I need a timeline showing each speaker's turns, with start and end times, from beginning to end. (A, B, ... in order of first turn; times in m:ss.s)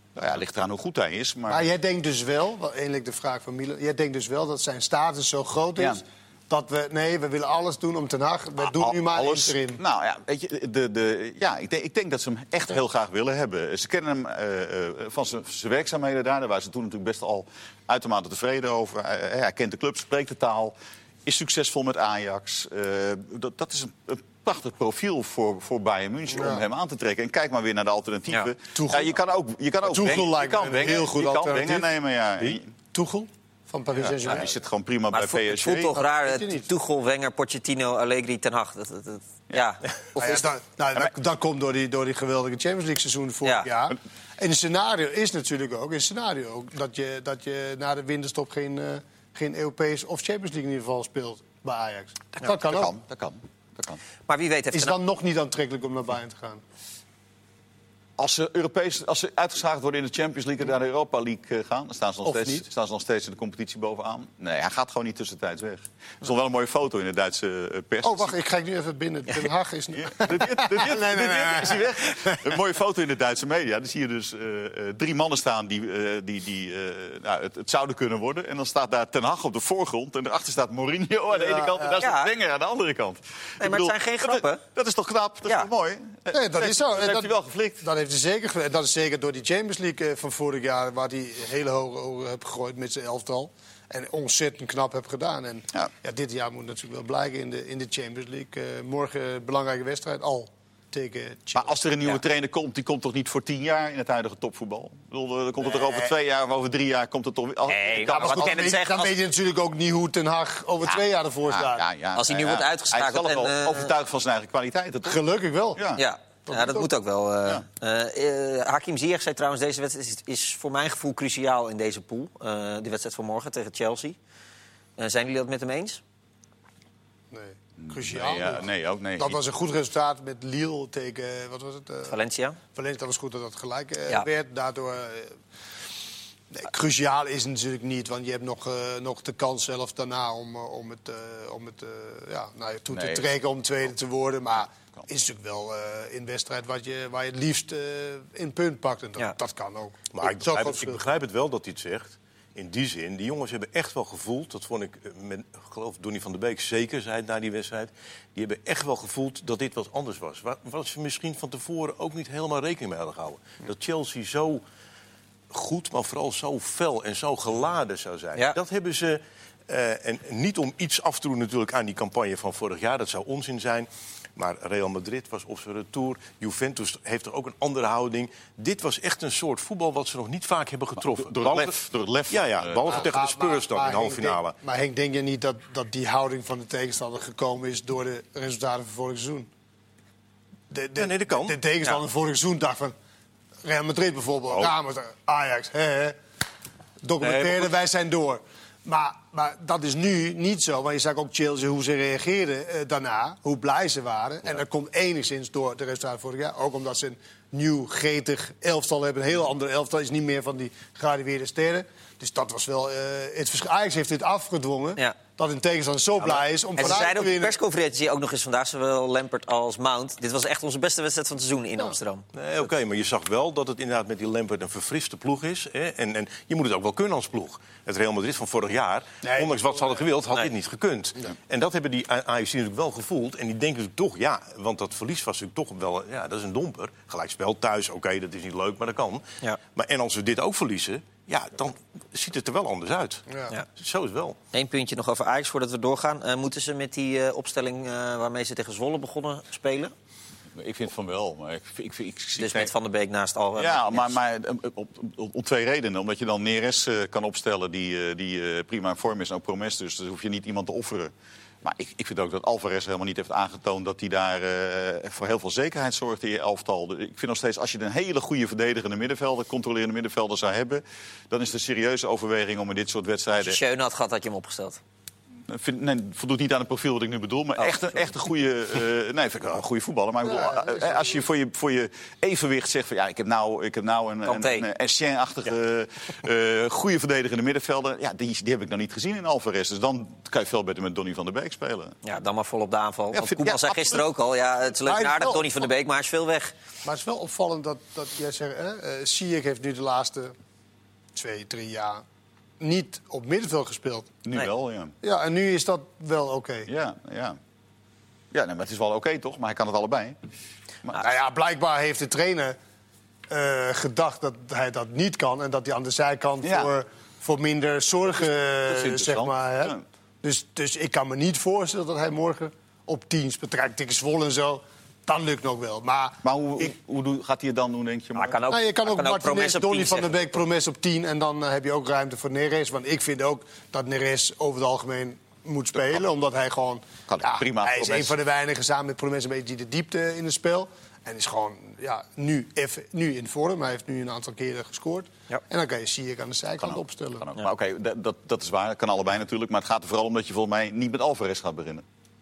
0:00.2-0:01.7 A
0:01.5-0:09.8 B
0:08.6-0:32.7 A
0:26.3-0:26.6 B
0:28.8-0:29.2 B
0:29.9-0:31.9 B
0:32.5-0:34.5 B
0:34.0-0:36.0 A
0:35.1-0:40.4 C
0:35.9-0:36.7 B
0:40.2-0:52.9 B
0:52.6-0:54.0 A
0:54.3-0:55.0 C
0:54.7-0:56.6 B
0:58.2-1:08.4 A
1:02.2-1:02.6 B
1:08.0-1:12.4 B
1:10.0-1:27.9 A
1:21.4-1:22.0 B
1:22.0-1:22.3 C
1:23.6-1:24.6 C
1:26.3-1:41.7 B
1:41.6-1:48.6 A
1:45.6-1:46.1 B
1:47.7-1:49.2 C
1:48.1-1:51.8 B
1:50.9-1:55.2 A
1:52.2-1:53.9 C
1:55.1-1:55.8 B
1:55.8-1:56.0 A
1:56.0-2:04.2 C
1:56.5-1:56.9 B
2:05.0-2:06.0 C
2:07.3-2:08.7 B
2:07.8-2:09.4 A
2:09.2-2:12.2 B
2:12.1-2:12.6 C
2:12.7-2:15.4 B
2:16.5-2:31.0 B
2:22.9-2:23.4 A
2:30.1-2:44.6 D
2:45.5-3:01.7 D
3:01.0-3:03.0 A
3:02.3-3:04.6 D
3:02.9-3:09.5 B
3:10.7-3:13.0 B
3:11.0-3:11.6 D
3:13.6-3:16.2 B
3:14.5-3:14.7 D
3:17.0-3:37.6 B
3:17.2-3:17.7 A
3:36.8-3:42.2 C
3:42.3-4:04.4 D
3:49.2-3:50.0 B
4:04.5-4:09.9 C
4:10.6-4:12.7 A
4:12.4-4:14.2 C
4:13.6-4:21.1 A
4:21.6-4:33.6 A
4:33.4-4:34.8 C
4:35.5-4:52.0 A
4:37.6-4:38.1 C
4:40.3-4:41.2 B
4:44.2-4:44.7 C
4:52.0-4:56.5 C
4:53.1-4:54.0 A
4:54.8-4:55.7 B
4:56.8-5:00.3 B
5:01.2-5:02.0 B
5:02.6-5:04.1 B
5:04.2-5:05.0 A
5:05.0-5:06.7 B
5:06.7-5:07.4 A
5:08.3-5:10.2 A
5:11.0-5:12.6 B
5:13.3-5:26.2 B
5:16.4-5:16.7 A
5:18.2-5:19.8 A
5:26.2-5:28.4 A
5:28.2-5:30.1 C
5:28.5-5:47.3 B
5:37.1-5:38.1 A
5:46.6-5:51.8 A